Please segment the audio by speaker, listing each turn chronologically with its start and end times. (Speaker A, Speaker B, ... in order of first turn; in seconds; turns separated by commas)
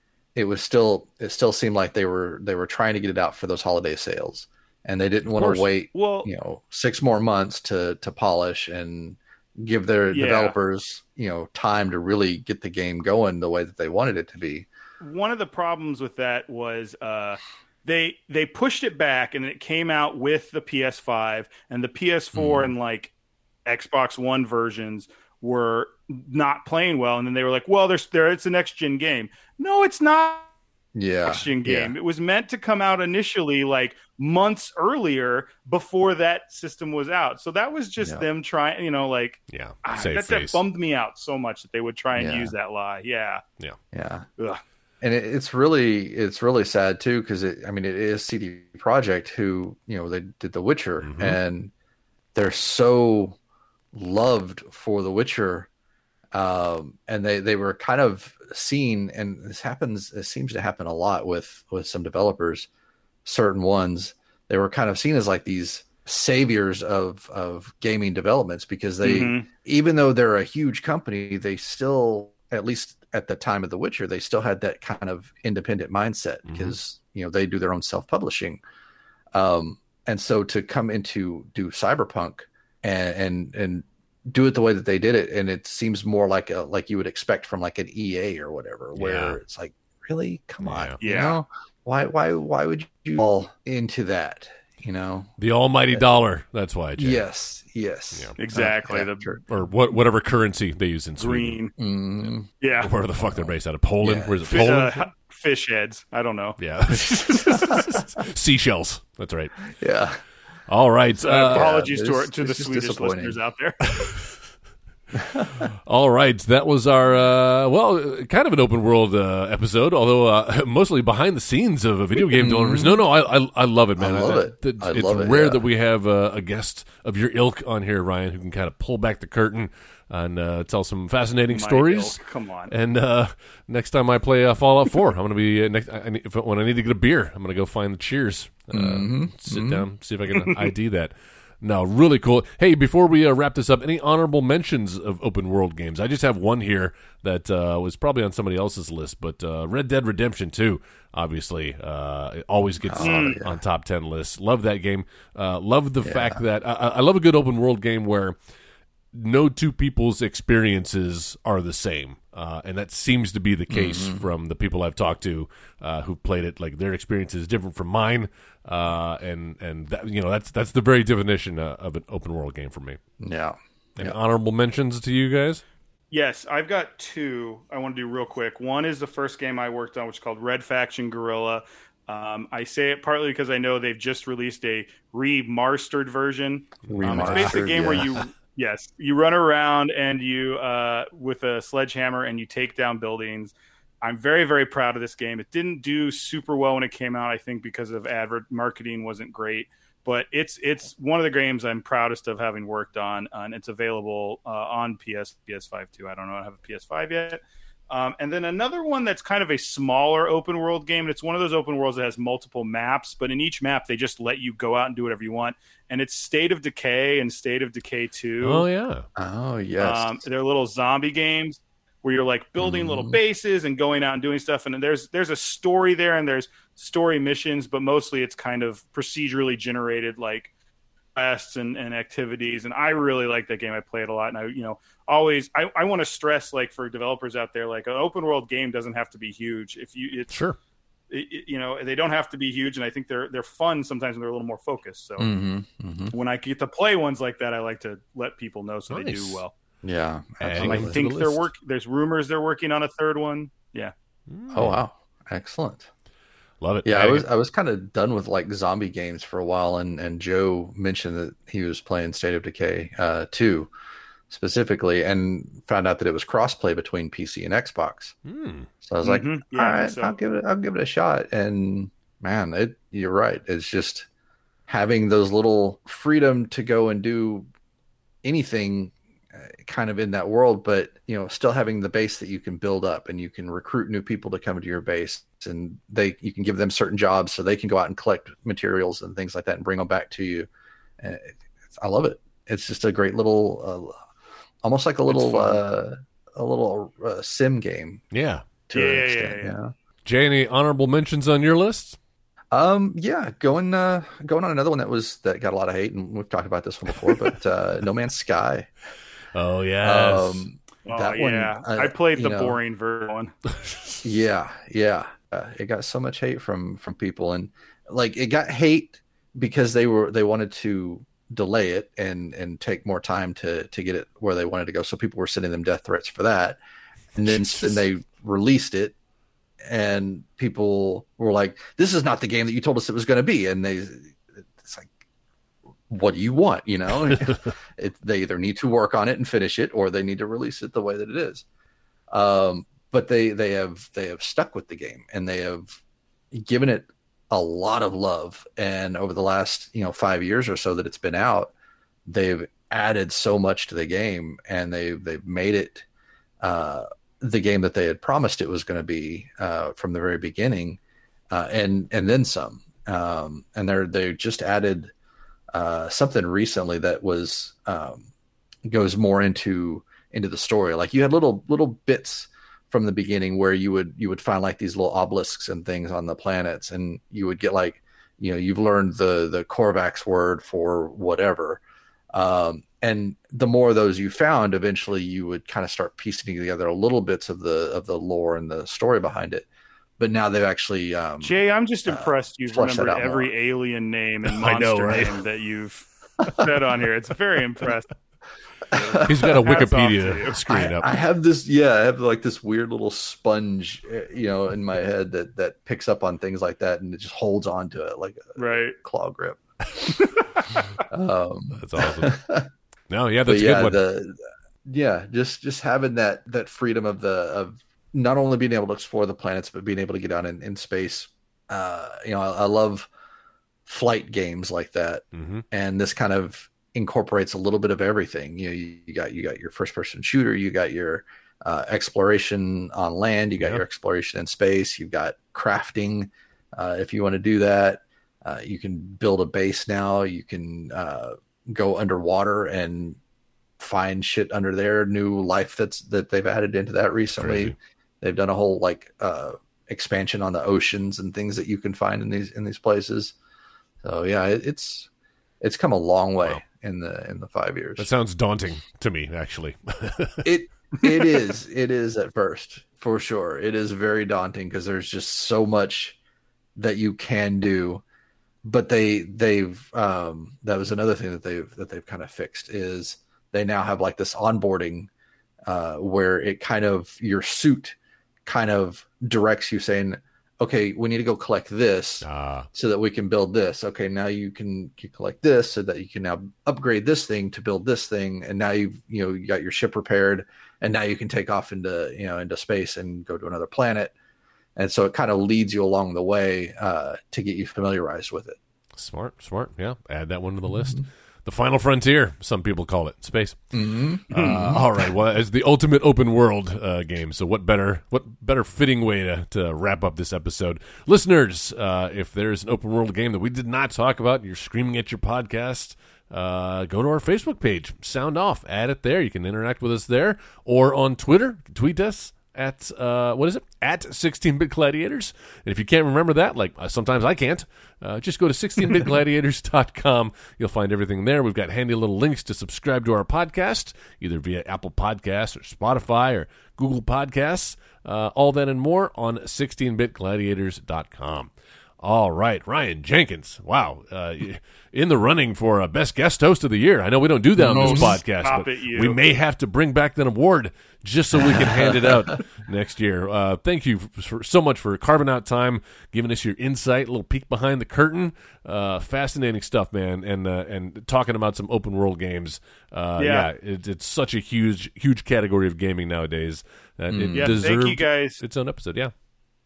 Speaker A: 0.3-14.7, Speaker B: 5.4-6.3, Speaker B: 10.1-10.5, Speaker B: 15.0-23.1, Speaker A: 22.3-22.7, Speaker B: 23.6-30.5, Speaker A: 30.9-31.9, Speaker B: 31.2-43.4, Speaker A: 38.0-38.2, Speaker C: 39.5-40.6, Speaker A: 42.1-42.5, Speaker A: 43.9-44.2, Speaker A: 45.0-51.7, Speaker C: 51.0-51.4, Speaker A: 52.3-53.4, Speaker A: 53.9-55.7, Speaker A: 56.3-62.7, Speaker A: 63.2-78.6, Speaker B: 69.0-69.5, Speaker C: 76.5-76.8, Speaker A: 79.3-95.3, Speaker C: 89.0-89.4, Speaker C: 90.6-91.0, Speaker B: 91.0-91.4, Speaker C: 95.4-97.2, Speaker A: 97.0-99.4, Speaker B: 98.4-99.2, Speaker C: 99.5-101.6, Speaker B: 101.2-101.7, Speaker A: 101.8-102.5, Speaker B: 102.6-102.9, Speaker C: 102.8-105.0, Speaker A: 103.2-104.7, Speaker B: 104.5-106.6, Speaker C: 106.6-109.7, Speaker A: 109.7-110.2, Speaker C: 110.7-111.7, Speaker B: 111.2-114.0, Speaker A: 111.2-113.3, Speaker A: 115.1-115.5, Speaker C: 115.8-132.2, Speaker A: 122.4-123.0, Speaker A: 124.0-125.6, Speaker B: 131.5-132.7, Speaker C: 132.7-158.4, Speaker A: 138.7-139.8, Speaker A: 152.8-153.6, Speaker B: 153.0-153.4, Speaker A: 156.0-156.4, Speaker C: 159.1-173.0, Speaker A: 163.7-164.2, Speaker A: 173.2-174.2, Speaker C: 174.0-175.6, Speaker B: 176.1-218.7, Speaker C: 186.8-188.1, Speaker A: 186.9-188.1, Speaker C: 218.4-219.0, Speaker A: 219.2-220.2, Speaker B: 219.8-230.5, Speaker A: 222.6-223.2, Speaker B: 231.1-240.3, Speaker C: 240.3-240.6, Speaker B: 241.1-245.3, Speaker A: 245.2-246.1, Speaker B: 246.1-249.5, Speaker C: 248.9-249.4, Speaker A: 249.8-251.0, Speaker C: 250.4-251.5, Speaker B: 250.6-253.9, Speaker C: 254.3-254.8, Speaker A: 254.5-255.9, Speaker C: 256.6-257.3, Speaker A: 256.8-263.7, Speaker A: 264.3-268.1, Speaker C: 268.2-268.7, Speaker A: 268.8-274.1, Speaker B: 269.0-270.2, Speaker A: 274.7-277.5, Speaker A: 278.2-290.5, Speaker A: 291.0-293.9, Speaker A: 294.6-298.0, Speaker B: 295.1-295.6, Speaker C: 298.1-298.4, Speaker A: 298.7-299.7, Speaker B: 298.7-299.5, Speaker C: 300.0-302.0, Speaker A: 302.5-308.7, Speaker C: 309.3-310.5, Speaker A: 309.8-312.6, Speaker B: 310.9-313.3, Speaker C: 313.5-314.0, Speaker A: 314.0-326.6, Speaker A: 327.1-328.9, Speaker A: 329.6-334.9, Speaker A: 335.9-341.4, Speaker C: 337.1-337.5, Speaker A: 342.1-345.8, Speaker A: 346.3-351.5, Speaker A: 352.1-355.8, Speaker A: 356.4-360.8, Speaker A: 361.3-364.9, Speaker A: 365.5-368.1, Speaker A: 368.6-381.6, Speaker A: 382.1-389.5, Speaker A: 390.0-393.3, Speaker B: 391.2-397.9, Speaker C: 394.2-395.2, Speaker A: 398.7-399.4, Speaker B: 398.7-400.4, Speaker C: 399.0-400.9, Speaker A: 400.5-409.4, Speaker B: 408.4-408.8, Speaker B: 409.9-410.6, Speaker A: 410.9-412.5, Speaker C: 411.5-412.1, Speaker C: 412.9-413.8, Speaker A: 413.2-422.9, Speaker A: 423.6-443.0, Speaker C: 425.1-425.4, Speaker A: 443.6-453.1, Speaker C: 447.1-447.5, Speaker A: 453.8-454.9, Speaker A: 455.4-457.9, Speaker C: 457.8-460.3, Speaker A: 460.2-465.9, Speaker A: 466.6-467.8, Speaker A: 468.4-474.9, Speaker A: 475.4-493.9, Speaker C: 482.0-482.5, Speaker A: 494.6-498.4, Speaker C: 498.8-503.4, Speaker A: 500.5-500.8, Speaker A: 503.5-504.9, Speaker C: 504.1-568.9, Speaker B: 504.1-504.6, Speaker A: 547.4-548.0, Speaker B: 547.6-549.0, Speaker A: 551.3-552.1, Speaker B: 563.0-563.3, Speaker A: 566.9-567.4, Speaker B: 567.1-568.2